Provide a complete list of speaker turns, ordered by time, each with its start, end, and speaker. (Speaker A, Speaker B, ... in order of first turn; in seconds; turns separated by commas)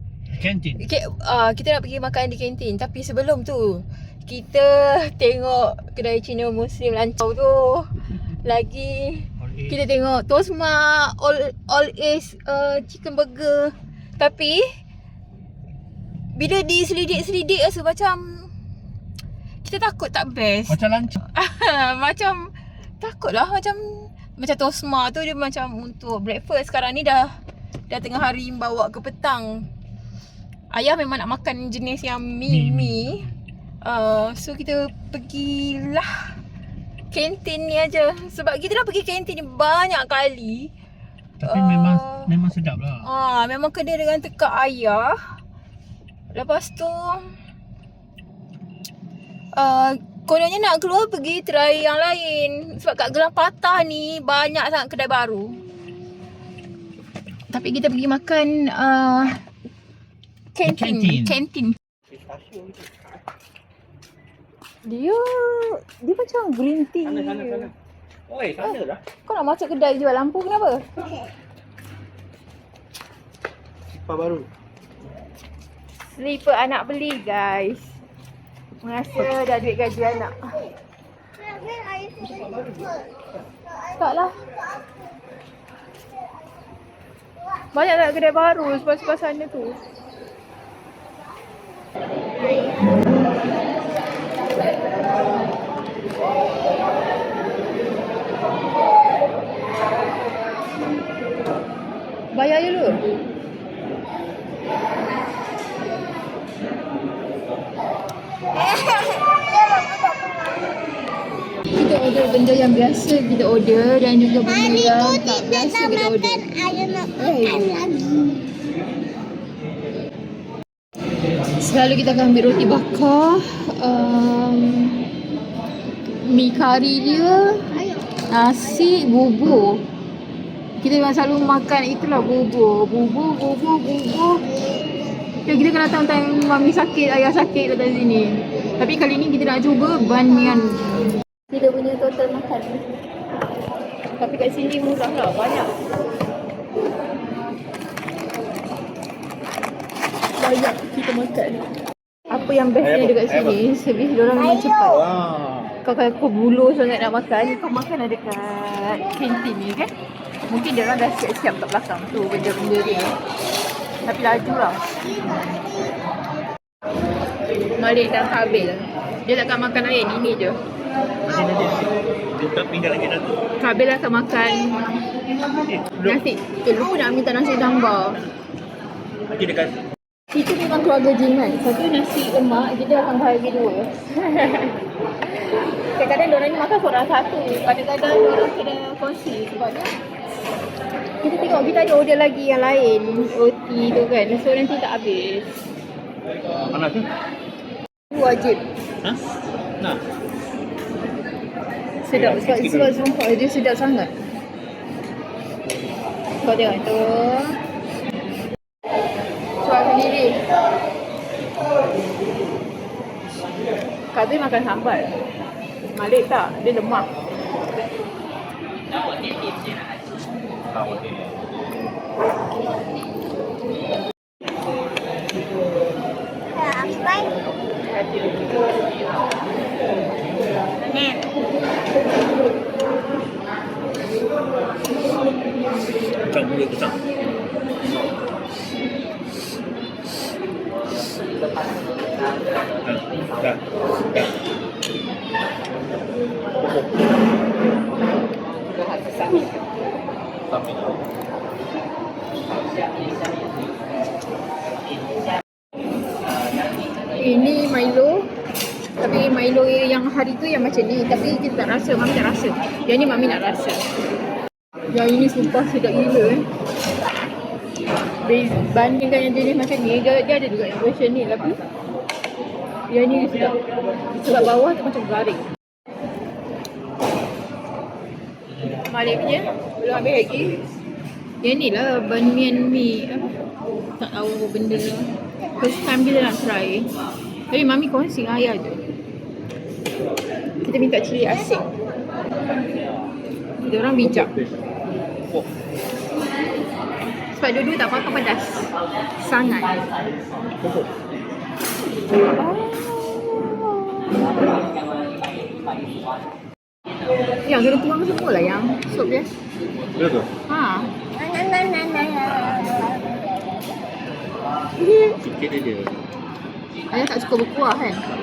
Speaker A: 0.3-0.8, Speaker B: 0.8-14.7, Speaker B: 16.3-18.5, Speaker B: 19.6-27.4, Speaker A: 20.7-21.2, Speaker B: 27.9-29.7, Speaker B: 30.7-36.4, Speaker A: 32.5-33.1, Speaker B: 37.1-40.7, Speaker A: 41.4-43.1, Speaker B: 41.4-42.3, Speaker B: 43.0-45.4, Speaker B: 46.3-47.3, Speaker B: 49.5-55.6, Speaker B: 57.5-59.4, Speaker B: 60.5-61.8, Speaker A: 60.6-61.4, Speaker A: 62.1-63.2, Speaker B: 64.8-67.7, Speaker A: 67.0-67.7, Speaker A: 68.3-69.0, Speaker B: 68.6-70.9, Speaker A: 73.9-74.5, Speaker B: 76.1-78.0, Speaker B: 78.8-80.4, Speaker C: 81.4-82.9, Speaker A: 82.5-82.7, Speaker B: 83.9-84.3, Speaker B: 87.7-89.8, Speaker B: 102.3-103.0, Speaker C: 108.5-110.6, Speaker B: 111.7-116.5, Speaker C: 114.5-118.4, Speaker B: 117.2-117.7, Speaker B: 121.6-125.0, Speaker B: 126.2-127.8, Speaker B: 128.3-129.8, Speaker B: 130.8-134.4, Speaker B: 135.4-142.8, Speaker B: 144.2-145.7, Speaker B: 150.4-151.6, Speaker B: 152.3-155.0, Speaker A: 152.8-153.6, Speaker C: 154.4-154.9, Speaker A: 154.8-155.7, Speaker B: 155.8-159.9, Speaker B: 160.5-163.1, Speaker B: 164.1-164.8, Speaker C: 165.2-165.7, Speaker B: 167.8-170.6, Speaker A: 171.2-173.4, Speaker B: 173.6-175.0, Speaker A: 175.6-176.2, Speaker B: 176.0-178.2, Speaker A: 179.3-179.8, Speaker B: 180.3-189.9, Speaker B: 191.2-195.6, Speaker A: 196.7-197.1, Speaker B: 198.1-198.6, Speaker B: 202.0-204.1, Speaker A: 202.1-203.0, Speaker B: 206.4-207.6, Speaker B: 209.6-210.4, Speaker B: 214.1-215.1, Speaker B: 215.9-217.1, Speaker A: 220.7-221.3, Speaker C: 226.5-227.3, Speaker B: 227.9-228.6, Speaker A: 236.3-237.0, Speaker A: 242.8-244.3, Speaker A: 246.6-247.1, Speaker A: 250.5-251.0, Speaker B: 257.1-258.3, Speaker B: 259.0-263.8, Speaker B: 264.9-266.5, Speaker B: 268.2-271.6, Speaker B: 272.9-273.6, Speaker B: 274.1-275.5, Speaker B: 278.8-280.6, Speaker B: 281.4-283.3, Speaker B: 284.0-286.9, Speaker B: 287.5-288.8, Speaker B: 290.6-291.7, Speaker B: 293.6-294.3, Speaker A: 294.0-294.6, Speaker B: 297.3-299.8, Speaker A: 300.6-301.0, Speaker B: 302.3-304.8, Speaker B: 307.4-309.3, Speaker A: 309.9-310.3, Speaker B: 310.5-310.9, Speaker C: 311.1-313.6, Speaker B: 314.8-315.1, Speaker A: 315.2-316.0, Speaker B: 316.9-318.0